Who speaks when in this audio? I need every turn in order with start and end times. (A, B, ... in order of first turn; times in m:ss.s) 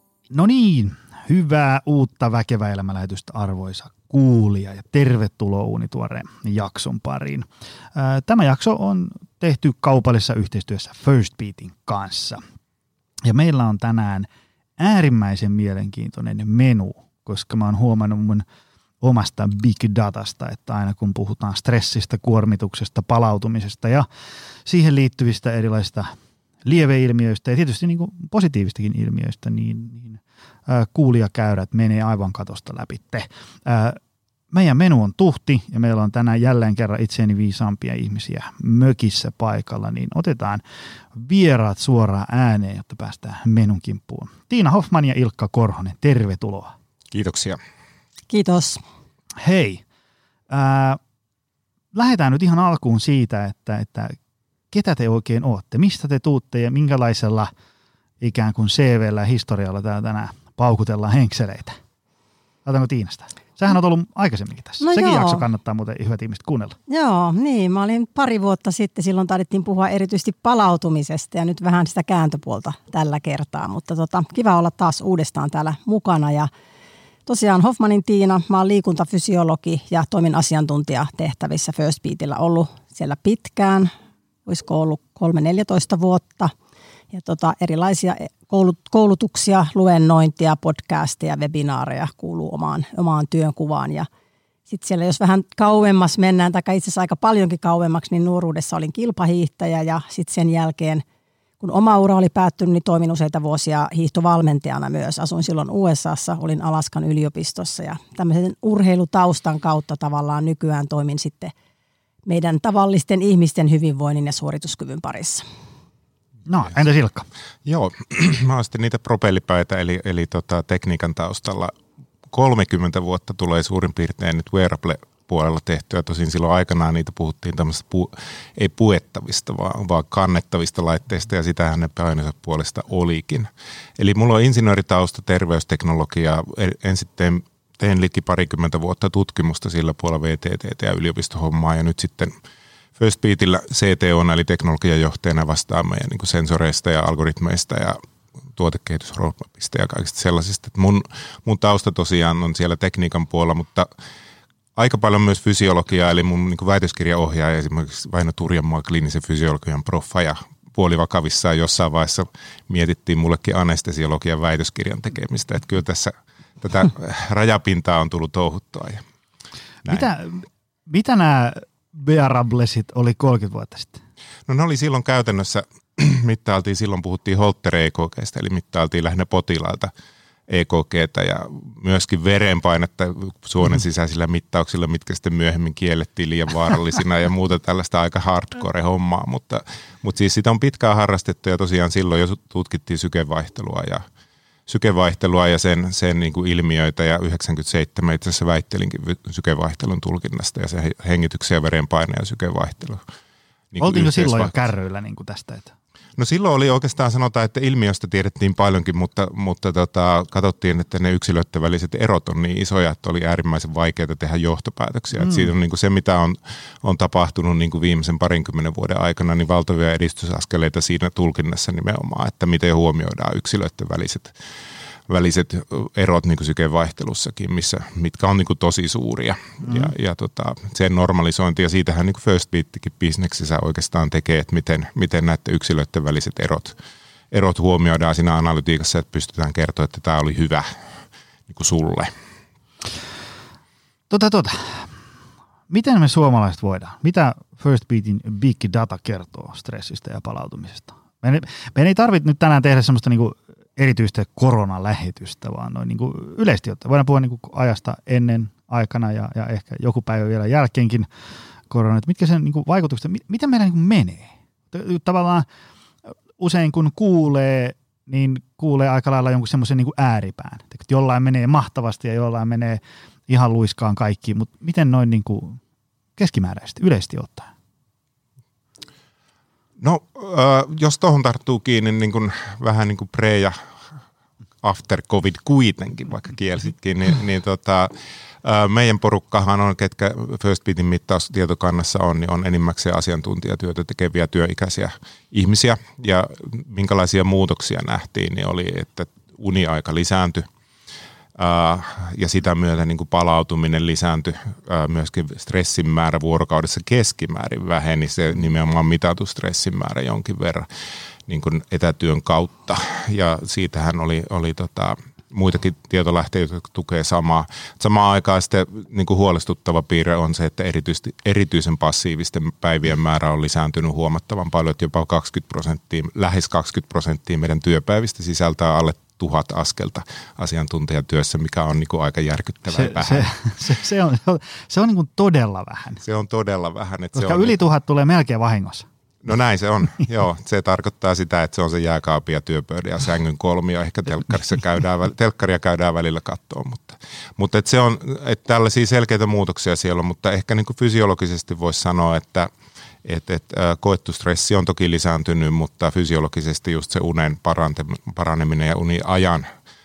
0:00.3-0:12.4 A
0:13.2-0:18.4 A
0:19.0-0:24.1 A
0:24.6-0:26.1 A
0:26.6-0:34.0 A
0:34.5-0:46.7 A
0:47.1-0:47.6 B
0:48.3-0:48.8 C
0:49.4-0:49.8 A
0:50.5-0:51.0 A
0:51.9-0:54.2 A
0:54.7-0:57.5 A
0:58.2-1:01.8 A
1:02.6-1:06.8 A
1:04.8-1:05.4 C
1:06.9-1:16.5 C
1:17.2-1:23.9 C
1:24.4-1:26.5 C
1:27.1-1:34.1 C
1:34.7-1:41.0 C
1:41.6-1:51.5 C
1:52.2-1:55.4 C
1:56.4-1:57.3 A
1:57.6-2:01.7 B
2:02.3-2:22.3 B
2:23.0-2:28.0 B
2:28.5-2:33.9 B
2:34.8-2:49.0 B
2:49.8-2:54.0 A
2:54.5-2:59.9 B
3:00.5-3:14.0 B
3:14.7-3:23.0 B
3:23.7-3:24.5 B
3:23.8-3:25.7 A
3:26.2-3:44.4 B
3:45.1-3:56.8 B
3:57.3-4:00.7 B
4:01.5-4:02.1 B
4:04.1-4:04.9 A
4:05.7-4:21.1 A
4:21.7-4:25.4 A
4:26.4-4:35.6 A
4:36.2-4:37.5 A
4:39.8-4:43.6 B
4:44.6-4:47.9 B
4:48.4-5:00.4 B
5:01.4-5:10.7 B
5:11.3-5:33.3 B
5:32.7-5:36.0 A
5:36.0-5:37.5 B
5:37.2-5:38.9 A
5:39.2-5:52.5 B
5:53.0-5:59.5 B